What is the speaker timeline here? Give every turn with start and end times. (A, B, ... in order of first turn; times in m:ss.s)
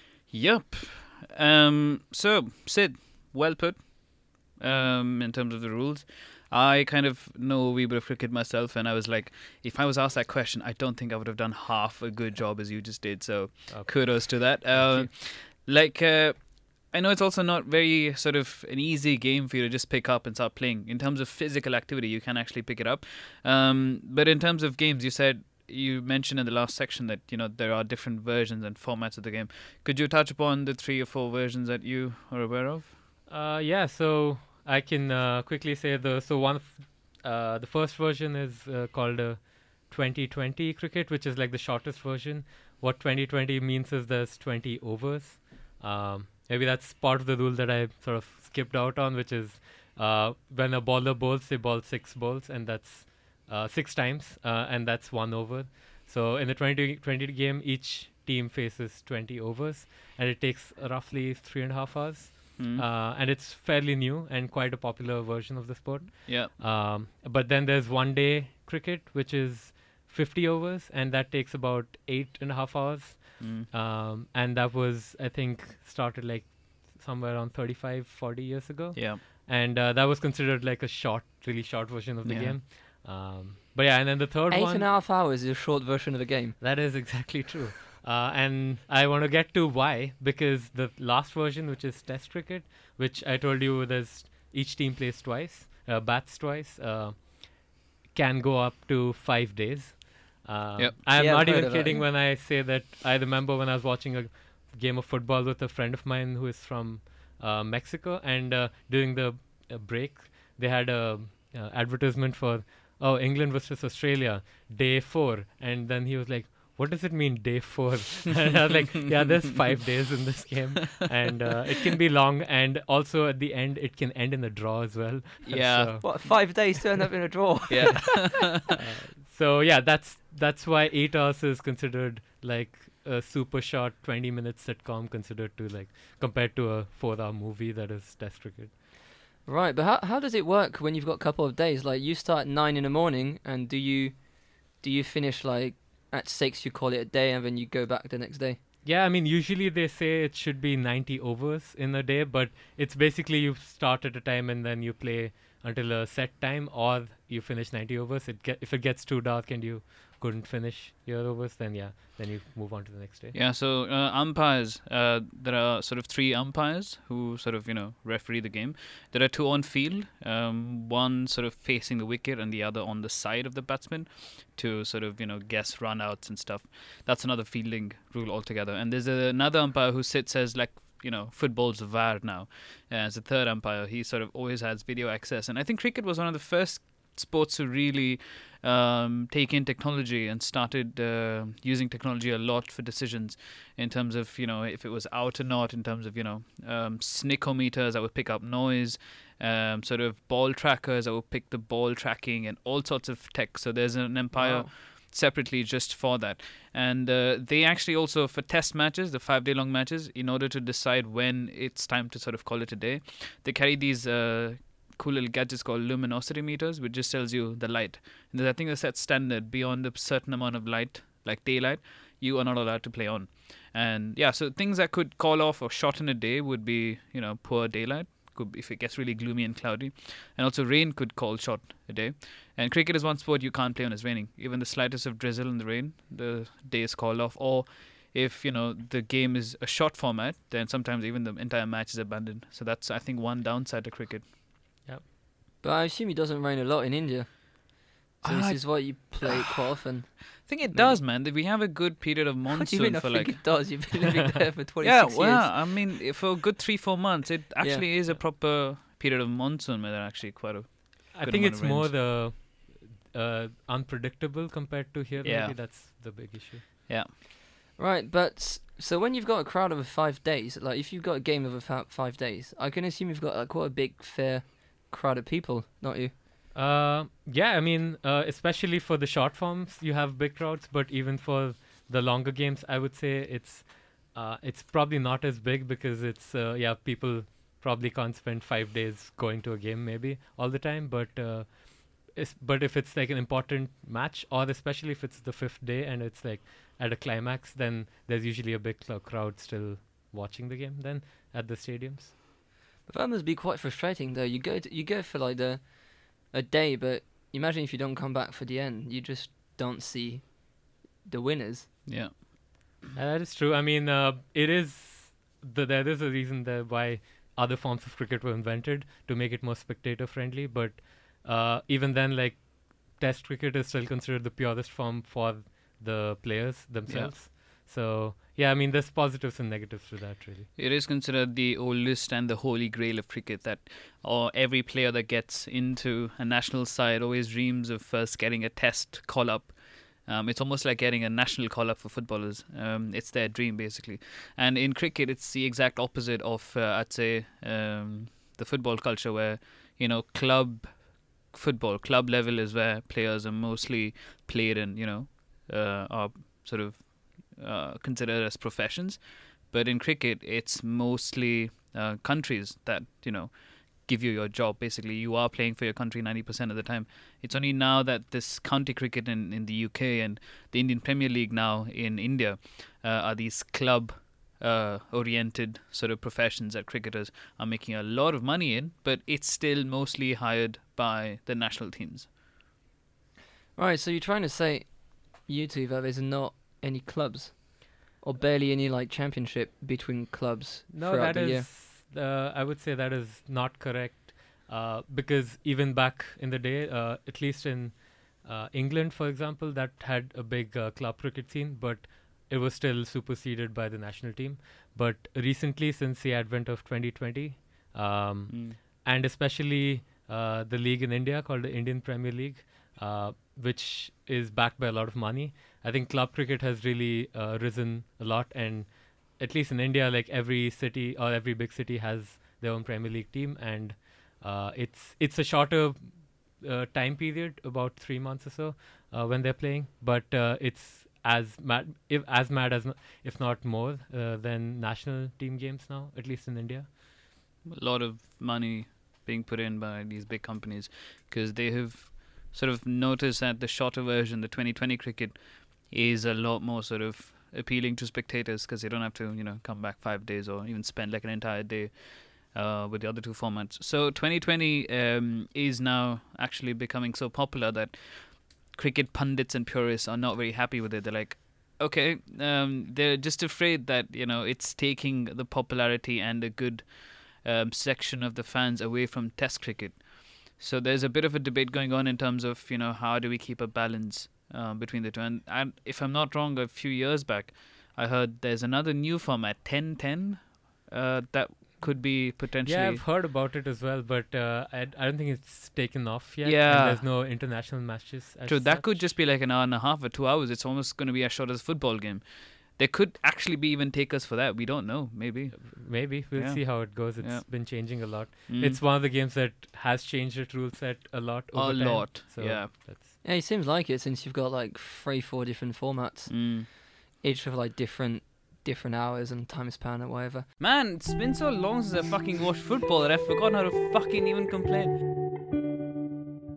0:00.3-0:32.9 A
0:13.7-0:15.1 B
0:33.3-1:24.9 B
1:02.6-1:02.8 A
1:06.3-1:06.5 A
1:13.4-1:13.7 A
1:19.0-1:19.2 A
1:22.2-1:22.6 A
1:24.5-1:26.6 C
1:26.6-2:06.8 B
1:41.2-1:42.1 C
2:05.5-2:06.0 A
2:06.0-2:08.3 C
2:07.7-2:08.6 A
2:08.1-2:18.8 B
2:19.5-2:28.6 C
2:28.8-2:43.4 B
2:43.3-4:04.3 A
3:24.3-3:24.7 C
4:05.6-4:11.0 C
4:08.2-4:09.3 A
4:10.1-4:13.8 A
4:12.5-4:15.9 C
4:14.8-4:22.0 A
4:17.6-4:17.9 C
4:21.1-4:26.7 B
4:25.2-4:25.6 A
4:27.8-4:36.1 C
4:36.5-5:02.1 B
5:02.9-5:11.8 C
5:11.9-5:12.2 A
5:13.0-5:30.5 B
5:26.9-5:27.1 A
5:30.6-6:22.1 A
6:23.6-6:31.5 C
6:30.7-7:16.8 B
6:48.3-6:48.6 A
7:17.5-8:02.9 A
8:01.7-8:09.0 B
8:06.2-8:06.9 A
8:08.3-8:18.6 A
8:15.4-8:23.0 B
8:21.3-8:22.5 A
8:23.0-8:30.3 C
8:26.1-8:26.5 A
8:30.4-8:34.8 A